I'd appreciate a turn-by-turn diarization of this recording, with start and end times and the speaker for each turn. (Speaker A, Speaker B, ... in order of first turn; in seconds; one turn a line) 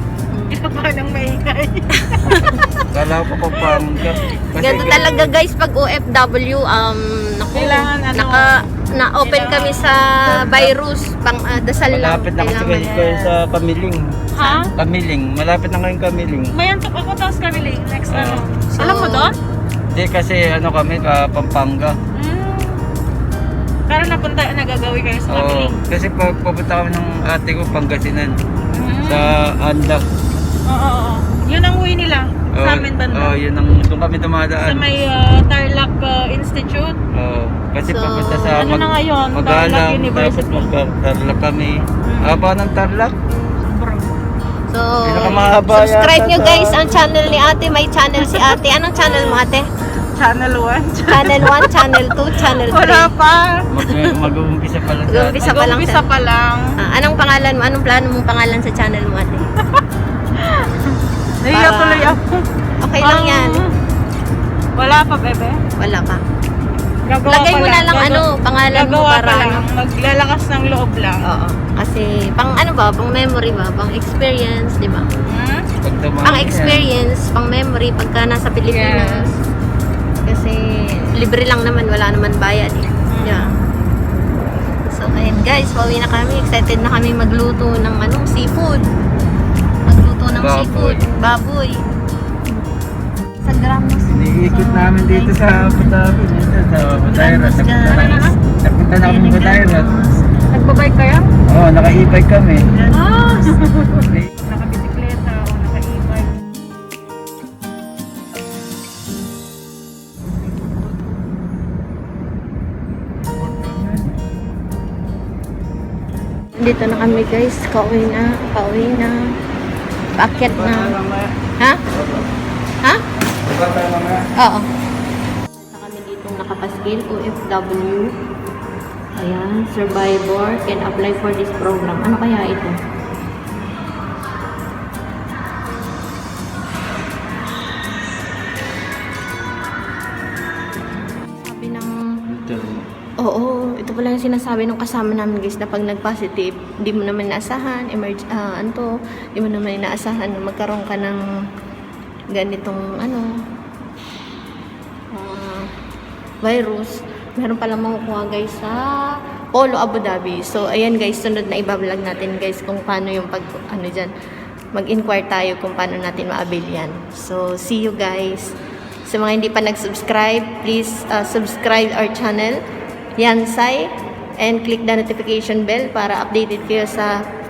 Speaker A: 0.3-0.6
Speaker B: 0.5-2.8
Speaker A: 2.0-2.5
Speaker C: 2.9-5.3
Speaker B: 3.5-4.8
Speaker A: 4.5-13.1
Speaker B: 7.5-8.5
Speaker B: 9.2-10.0
Speaker C: 10.2-10.7
Speaker C: 11.9-14.2
Speaker B: 12.9-13.3
Speaker B: 14.3-14.7
Speaker A: 14.4-14.7
Speaker C: 14.7-16.6
Speaker B: 16.5-19.4
Speaker C: 18.1-18.4
Speaker A: 18.5-19.3
Speaker C: 19.9-22.0
Speaker B: 22.1-22.9
Speaker B: 23.9-25.8
Speaker C: 25.3-28.4
Speaker B: 28.7-29.3
Speaker C: 29.1-30.1
Speaker B: 30.7-33.4
Speaker C: 32.5-34.9
Speaker B: 34.6-37.0
Speaker C: 37.1-43.2
Speaker A: 37.9-38.7
Speaker B: 38.5-40.7
Speaker B: 42.0-42.4
Speaker B: 43.6-44.2
Speaker A: 44.7-49.7
Speaker C: 45.0-46.9
Speaker B: 48.2-49.4
Speaker B: 50.1-53.7
Speaker A: 51.1-53.1
Speaker C: 53.7-55.5
Speaker A: 53.9-54.1
Speaker A: 55.1-56.1
Speaker B: 55.4-56.7
Speaker A: 56.8-59.5
Speaker B: 60.4-62.5
Speaker A: 61.5-62.2
Speaker A: 62.8-63.6
Speaker B: 63.0-63.7
Speaker B: 64.8-65.6
Speaker A: 65.8-66.2
Speaker B: 67.0-71.2
Speaker A: 67.3-69.7
Speaker A: 71.2-75.1
Speaker B: 75.2-75.7
Speaker C: 75.8-76.9
Speaker A: 76.2-79.4
Speaker B: 78.7-79.3
Speaker A: 80.2-83.5
Speaker B: 83.1-83.6
Speaker A: 84.9-88.9
Speaker A: 89.8-91.8
Speaker C: 90.4-91.1
Speaker A: 93.4-96.0
Speaker C: 94.1-99.9
Speaker A: 96.8-98.2
Speaker B: 97.8-98.4
Speaker A: 99.0-100.2
Speaker B: 100.5-101.3
Speaker C: 101.5-102.6
Speaker A: 102.7-103.5
Speaker B: 102.9-106.3
Speaker C: 113.3-114.1
Speaker A: 116.5-119.3
Speaker C: 116.8-117.3
Speaker A: 120.1-121.0
Speaker B: 120.2-120.7
Speaker C: 120.4-121.3
Speaker C: 121.9-122.2
Speaker C: 123.4-124.3
Speaker A: 124.3-124.7
Speaker A: 125.6-128.1
Speaker A: 129.2-132.8
Speaker A: 141.4-141.9
Speaker C: 142.3-142.8
Speaker A: 143.2-151.2
Speaker A: 152.3-153.3
Speaker A: 155.1-155.7
Speaker A: 156.4-164.1
Speaker A: 164.7-172.6
Speaker A: 173.2-177.1